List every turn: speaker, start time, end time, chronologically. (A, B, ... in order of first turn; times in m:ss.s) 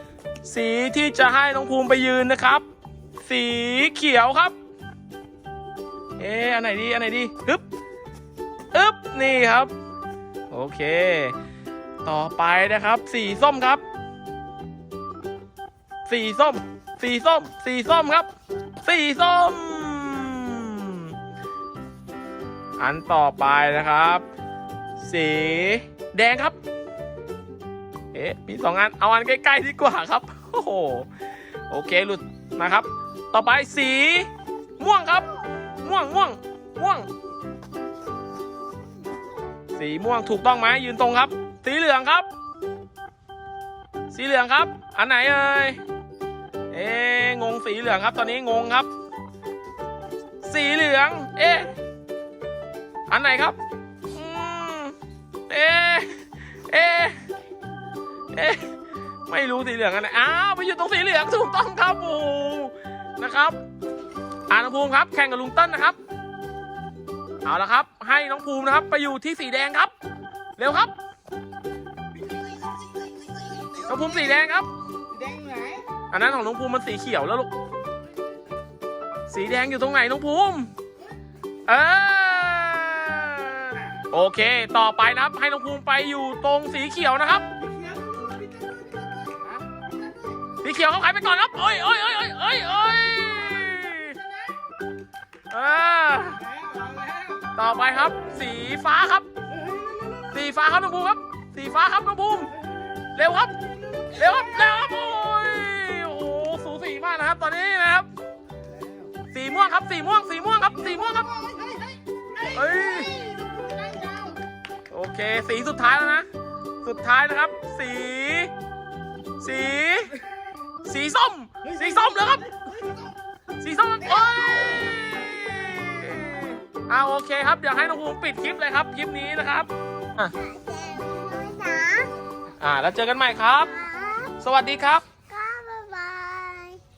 0:00.4-0:02.6 A
0:03.2-0:04.5 A
0:06.2-0:07.6 A
0:08.7-0:09.7 A
0:10.5-0:11.3 A
0:12.0-0:13.8 A
0:16.1-0:18.3 A
0:18.8-0:21.1 A
0:22.8-0:24.2 A
0:25.0-0:26.6 A
0:28.1-0:31.1 A
0:31.7-0:35.3 A
0:35.8-0:37.1 A
0:39.7-0:42.3 A
0:44.1-0:45.8 A
0:46.7-0:48.9 A
0:50.4-0:51.7 A
0:53.1-0:53.6 A
0:54.1-0:54.9 A
0:55.5-0:57.2 A
0:58.3-0:58.7 A
0:59.3-1:03.6 A
1:04.5-1:06.0 A
1:07.4-1:09.9 A
1:10.6-1:10.9 A
1:13.6-1:13.8 B
1:13.8-1:14.7 A
1:15.1-1:15.8 B
1:16.1-1:17.5 A
1:19.3-1:20.7 A
1:21.7-1:27.5 A
1:27.8-1:28.8 B
1:30.6-1:34.2 A
1:35.5-1:36.5 A
1:36.7-1:37.3 B
1:37.5-1:39.3 A
1:40.3-1:42.5 A
1:43.1-1:43.5 A
1:44.1-1:48.1 A
1:49.3-1:51.5 A
1:52.4-1:54.4 B
1:52.4-1:53.2 A
1:54.9-1:56.3 A
1:56.8-1:58.5 A
1:59.4-2:00.2 A
2:00.8-2:02.6 A
2:03.6-2:10.3 A
2:10.3-2:12.1 C
2:12.6-2:13.7 A
2:13.7-2:14.4 C
2:14.4-2:15.0 A
2:15.3-2:16.8 C